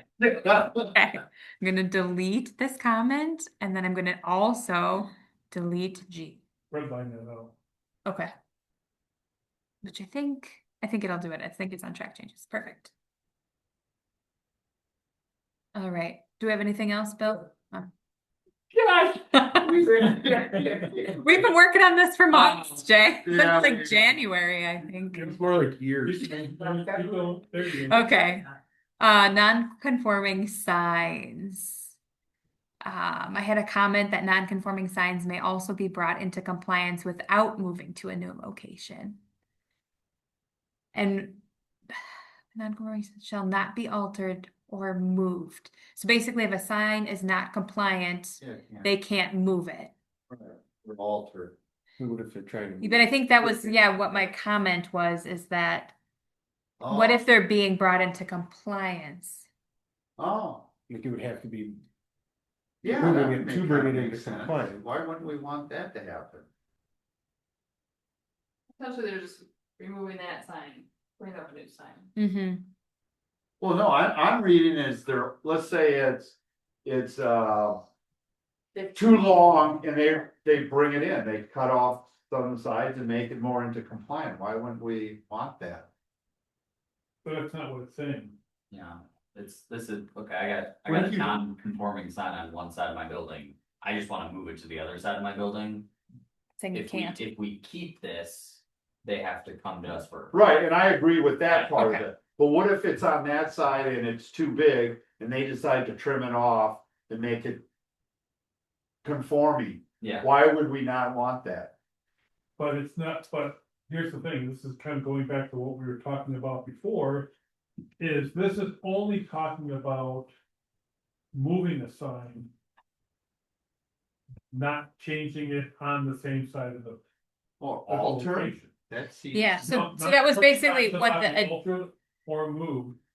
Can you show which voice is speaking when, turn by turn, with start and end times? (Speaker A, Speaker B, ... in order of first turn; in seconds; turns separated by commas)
Speaker A: 0.2-0.9, Speaker B: 0.9-6.4, Speaker C: 6.7-7.5, Speaker B: 8.0-8.3, Speaker B: 9.8-12.9, Speaker B: 15.7-17.9, Speaker A: 18.7-19.0, Speaker B: 19.3-19.6, Speaker A: 19.5-21.4, Speaker B: 21.2-25.4, Speaker A: 23.2-23.9, Speaker C: 25.1-25.4, Speaker D: 25.2-27.3, Speaker C: 26.0-28.0, Speaker B: 27.9-28.5, Speaker B: 29.0-31.9, Speaker B: 32.8-39.2, Speaker B: 40.9-41.4, Speaker B: 42.5-49.9, Speaker A: 48.4-48.9, Speaker A: 50.3-51.5, Speaker D: 52.0-53.7, Speaker B: 52.8-55.9, Speaker A: 56.8-57.2, Speaker B: 56.9-59.5, Speaker A: 60.2-60.7, Speaker D: 60.9-61.8, Speaker A: 62.8-66.5, Speaker D: 62.9-64.8, Speaker E: 68.8-72.1, Speaker B: 72.2-72.7, Speaker A: 73.6-77.8, Speaker A: 78.9-85.9, Speaker C: 87.2-88.4, Speaker F: 88.7-95.9, Speaker A: 90.8-91.4, Speaker B: 96.6-97.2, Speaker F: 96.7-100.3, Speaker A: 100.3-107.6, Speaker F: 101.5-101.8, Speaker B: 101.8-102.0, Speaker A: 109.0-111.7, Speaker F: 110.0-110.3, Speaker C: 112.6-117.3, Speaker C: 118.0-120.3, Speaker C: 121.3-122.5, Speaker C: 124.5-127.0, Speaker A: 127.6-129.8, Speaker C: 127.9-128.7, Speaker B: 129.3-131.6, Speaker C: 129.6-133.0